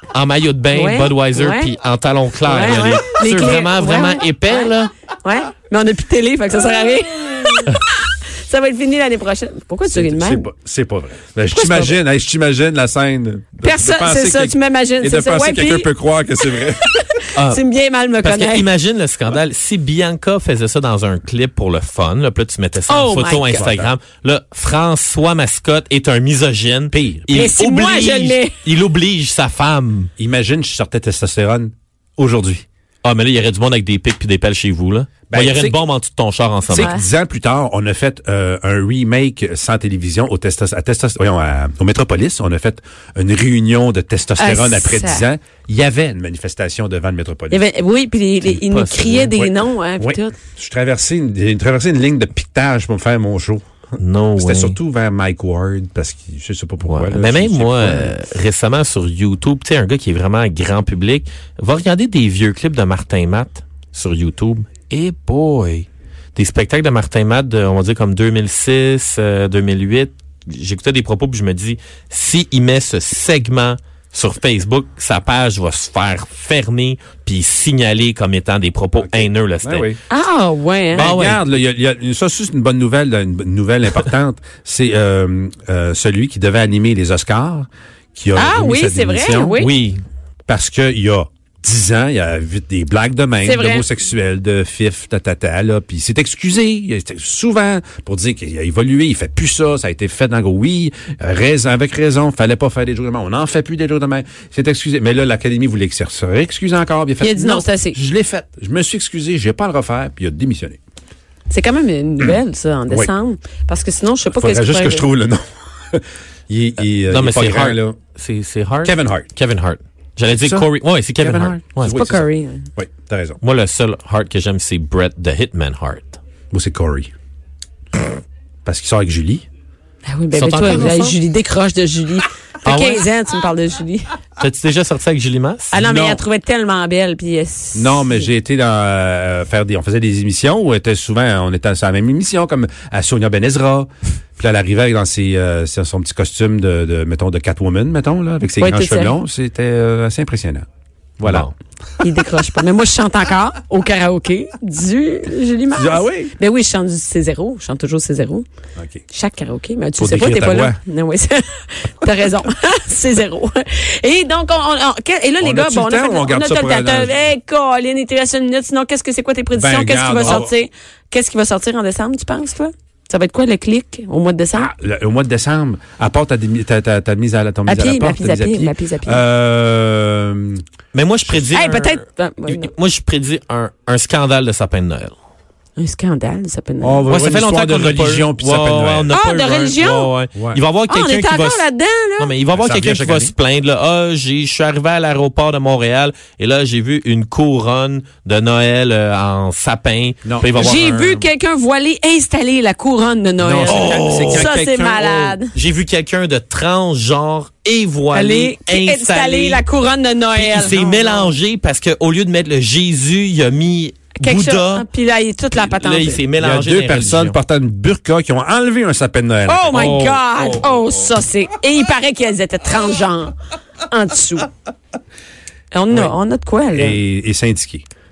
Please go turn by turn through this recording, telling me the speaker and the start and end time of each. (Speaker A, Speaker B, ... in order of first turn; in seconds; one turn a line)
Speaker A: 0.1-4.9
Speaker B: 0.7-1.7
Speaker B: 2.4-10.5
Speaker C: 9.9-17.1
Speaker B: 11.5-12.0
Speaker B: 13.6-15.9
Speaker B: 16.6-18.7
Speaker A: 17.4-17.6
Speaker A: 18.2-30.1
Speaker B: 22.9-23.6
Speaker C: 23.6-23.9
Speaker C: 26.9-27.4
Speaker B: 27.3-28.6
Speaker C: 30.2-32.6
Speaker A: 33.0-36.9
Speaker C: 35.3-35.8
Speaker C: 36.7-47.6
Speaker B: 36.7-37.0
Speaker B: 44.4-45.3
Speaker B: 47.5-50.4
Speaker A: 48.5-49.3
Speaker C: 49.3-53.6
Speaker A: 54.0-54.8
Speaker C: 54.4-58.1
Speaker A: 56.9-79.9
Speaker C: 79.0-80.0
Speaker B: 80.1-81.1
Speaker C: 80.9-89.7
Speaker A: 81.0-81.5
Speaker B: 88.3-89.7
Speaker A: 89.6-90.0
Speaker C: 90.5-110.8
Speaker B: 93.4-93.9
Speaker B: 107.2-108.0
Speaker B: 111.5-115.1
Speaker C: 114.4-118.0
Speaker A: 117.1-122.0
Speaker C: 118.8-119.3
Speaker C: 120.3-123.4
Speaker B: 121.9-122.7
Speaker A: 123.4-126.2
Speaker C: 126.5-127.1
Speaker C: 128.7-129.5
Speaker B: 130.1-134.1
Speaker A: 130.3-131.2
Speaker A: 132.6-133.1
Speaker A: 134.4-135.8
Speaker B: 135.7-138.3
Speaker C: 135.8-136.2
Speaker C: 137.8-150.7
Speaker B: 148.6-149.2
Speaker C: 151.2-151.5
Speaker A: 151.2-151.5
Speaker B: 152.0-158.4
Speaker C: 155.7-156.3
Speaker C: 158.8-159.0
Speaker B: 159.1-174.7
Speaker C: 160.0-160.8
Speaker C: 165.4-167.2
Speaker C: 169.5-170.6
Speaker C: 174.6-180.6
Speaker B: 177.7-179.2
Speaker A: 180.9-185.1
Speaker B: 181.5-182.7
Speaker B: 185.8-187.1
Speaker C: 186.8-189.2
Speaker A: 187.1-191.7
Speaker B: 189.1-190.1
Speaker C: 190.3-190.6
Speaker B: 190.9-192.3
Speaker A: 192.2-201.1
Speaker C: 192.5-193.3
Speaker C: 200.2-201.2
Speaker B: 200.6-205.5
Speaker C: 203.4-205.4
Speaker A: 203.6-204.6
Speaker A: 205.5-209.6
Speaker B: 208.1-211.3
Speaker A: 210.3-214.9
Speaker B: 214.2-216.2
Speaker A: 215.5-217.4
Speaker C: 216.4-220.2
Speaker B: 219.5-224.5
Speaker A: 219.7-220.7
Speaker B: 225.7-227.0
Speaker C: 226.8-227.8